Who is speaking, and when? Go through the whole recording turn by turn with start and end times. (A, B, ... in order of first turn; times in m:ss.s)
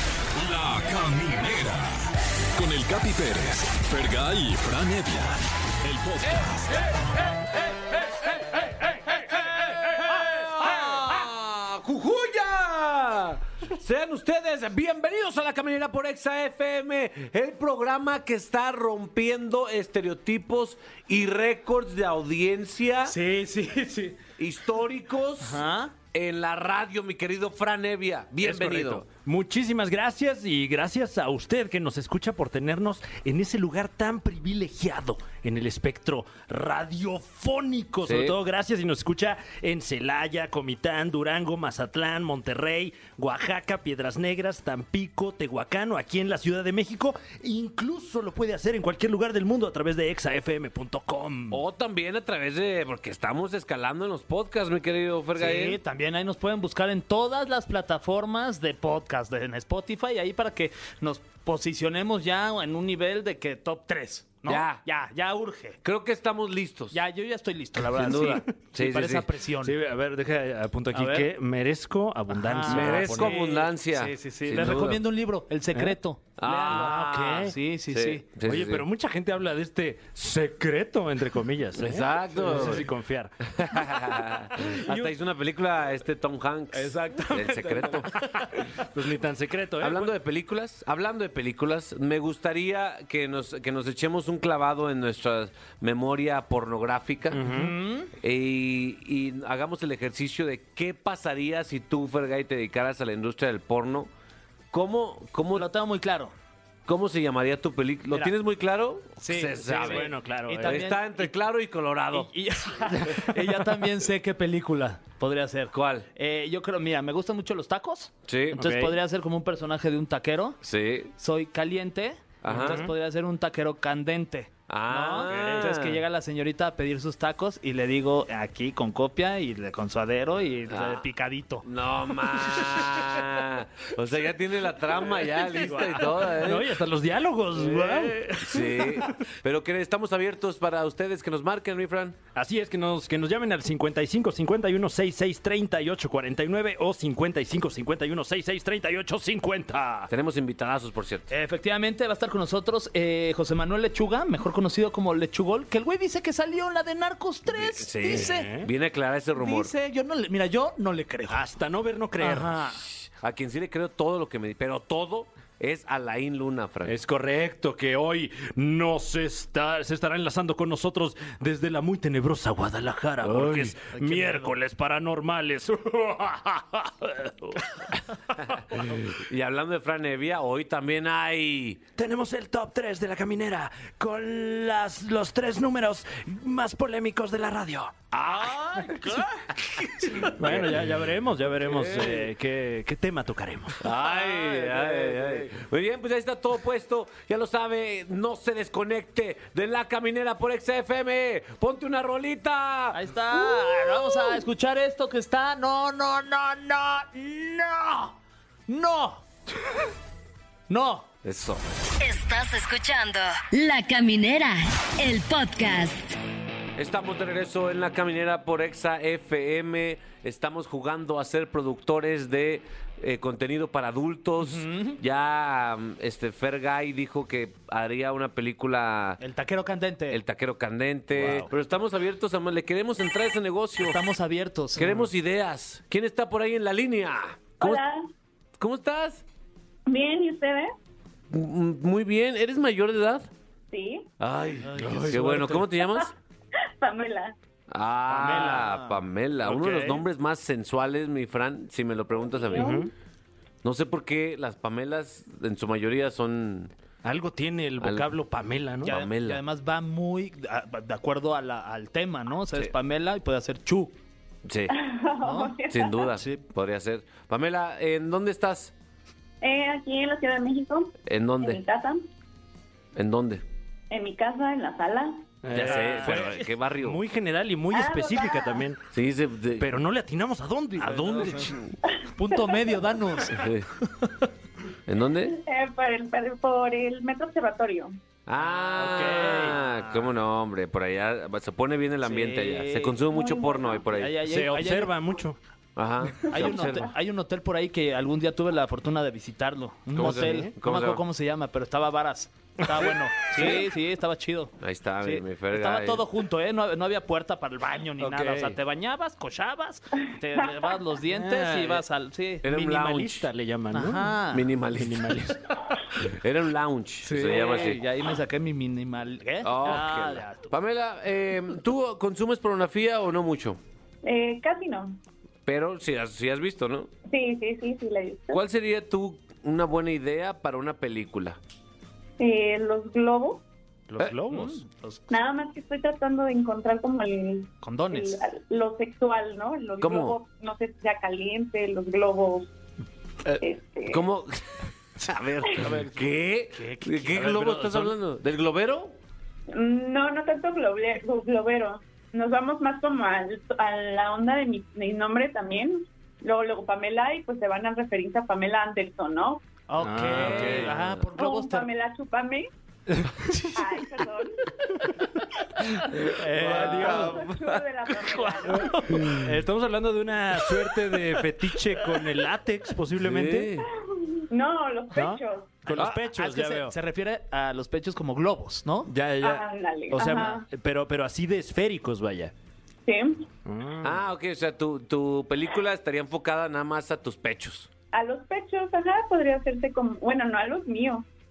0:00.4-0:06.8 A
0:09.3-0:23.2 B
0:23.0-0:24.2 C
0:24.4-0:25.6 B
0:25.4-0:25.9 C
0:26.1-0:29.1 B
0:28.4-0:51.6 D
0:38.0-0:38.4 B
0:51.5-0:55.8 B
0:55.4-1:05.8 C
1:04.5-1:04.8 B
1:05.8-1:07.0 B
1:06.9-1:09.8 C
1:07.9-1:09.3 B
1:09.6-1:13.4 D
1:10.9-1:11.3 C
1:12.3-1:18.2 C
1:12.7-1:15.0 B
1:16.4-1:18.8 B
1:16.7-1:17.5 D
1:18.4-1:25.1 D
1:21.8-1:22.9 B
1:23.5-1:28.1 B
1:26.7-1:30.1 D
1:29.8-1:37.4 B
1:37.3-1:37.8 D
1:37.5-1:38.1 C
1:38.2-1:44.1 B
1:44.7-1:45.7 B
1:45.5-1:46.3 C
1:46.9-1:50.1 B
1:49.2-1:51.3 C
1:49.6-1:50.8 D
1:50.6-1:52.3 B
1:52.1-2:00.6 C
1:53.0-1:53.6 D
1:55.7-1:56.1 B
1:58.3-1:58.6 B
1:58.6-1:59.0 D
2:00.6-2:01.1 B
2:01.2-2:11.7 C
2:02.4-2:02.9 B
2:02.5-2:02.9 D
2:04.7-2:06.0 B
2:05.2-2:05.7 D
2:10.7-2:11.0 B
2:11.6-2:16.7 B
2:15.6-2:19.2 D
2:17.6-2:22.2 B
2:22.4-2:30.1 D
2:30.1-2:31.3 B
2:31.3-2:38.5 C
2:37.5-2:39.7 B
2:38.0-2:38.7 D
2:39.4-2:41.5 C
2:41.3-2:42.7 D
2:42.2-2:42.8 C
2:43.2-2:47.0 B
2:46.8-2:58.8 D
2:53.2-2:53.8 B
2:53.9-2:54.5 C
2:58.7-3:01.8 B
3:02.0-3:08.1 D
3:08.1-3:10.9 B
3:10.4-3:13.8 D
3:11.5-3:12.3 B
3:13.8-3:23.0 B
3:14.1-3:15.3 C
3:22.9-3:28.2 C
3:28.7-3:29.2 C
3:30.7-3:31.1 C
3:31.2-3:31.7 B
3:32.0-3:36.2 E
3:36.8-3:49.2 B
3:44.4-3:45.0 C
3:49.2-3:50.2 C
3:50.1-3:54.0 B
3:51.2-3:51.5 C
3:53.8-3:54.9 C
3:54.8-3:57.8 B
3:57.6-3:58.0 F
3:58.6-3:59.2 B
3:59.9-4:00.7 F
4:01.3-4:03.3 B
4:03.7-4:04.1 F
4:04.2-4:06.1 B
4:04.6-4:05.7 C
4:05.8-4:06.1 F
4:06.6-4:07.4 F
4:07.7-4:12.8 B
4:08.1-4:10.0 C
4:12.3-4:12.9 F
4:12.5-4:12.9 D
4:13.6-4:16.7 B
4:17.0-4:19.0 D
4:17.8-4:18.1 B
4:18.8-4:19.4 B
4:18.9-4:24.0 C
4:24.4-4:24.8 B
4:24.7-4:26.1 F
4:25.2-4:25.6 C
4:25.7-4:28.7 B
4:26.1-4:26.4 C
4:29.4-4:32.0 F
4:31.1-4:31.6 B
4:33.0-4:33.4 B
4:33.9-4:35.3 F
4:35.4-4:38.8 D
4:35.5-4:37.0 B
4:35.6-4:36.1 C
4:37.7-4:38.7 F
4:38.9-4:39.7 B
4:39.6-4:41.6 D
4:40.8-4:41.6 C
4:40.9-4:41.7 B
4:42.1-4:44.2 C
4:43.3-4:43.7 B
4:44.9-4:45.4 B
4:45.2-4:48.0 F
4:48.3-4:54.2 B
4:48.4-4:50.1 C
4:48.8-4:49.6 D
4:52.0-4:53.2 C
4:53.2-4:53.8 F
4:53.8-4:55.0 C
4:54.2-4:55.4 D
4:55.8-4:56.9 B
4:56.3-5:13.1 C
4:59.9-5:01.0 B
5:00.0-5:00.5 D
5:02.7-5:03.7 D
5:04.6-5:06.1 B
5:08.0-5:08.6 D
5:11.1-5:11.8 D
5:12.4-5:13.3 B
5:12.9-5:14.2 D
5:13.7-5:14.5 C
5:14.3-5:15.4 B
5:14.7-5:15.9 D
5:16.0-5:17.8 B
5:17.0-5:20.4 C
5:19.4-5:23.6 B
5:24.0-5:25.0 F
5:25.5-5:26.9 B
5:27.1-5:28.4 F
5:28.3-5:31.4 B
5:32.2-5:33.4 F
5:34.0-5:34.6 D
5:34.0-5:35.1 C
5:35.1-5:42.5 F
5:37.6-5:38.2 C
5:39.8-5:40.2 B
5:43.2-5:44.4 B
5:43.4-5:44.0 F
5:45.0-5:49.0 B
5:46.6-5:47.3 C
5:47.1-5:47.9 D
5:49.5-5:59.4 F
5:59.7-6:01.7 C
5:59.8-6:00.8 D
6:00.1-6:01.0 B
6:01.2-6:02.5 F
6:02.9-6:03.6 D
6:03.4-6:04.5 F
6:05.8-6:07.4 D
6:06.1-6:07.1 C
6:06.4-6:07.6 B
6:06.4-6:08.8 F
6:08.0-6:13.6 D
6:08.7-6:09.0 C
6:13.0-6:13.7 B
6:13.7-6:15.6 F
6:14.9-6:16.8 D
6:15.7-6:18.9 C
6:18.9-6:22.3 D
6:19.2-6:20.5 F
6:22.9-6:23.3 F
6:23.4-6:24.0 D
6:23.8-6:27.7 B
6:27.9-6:31.1 F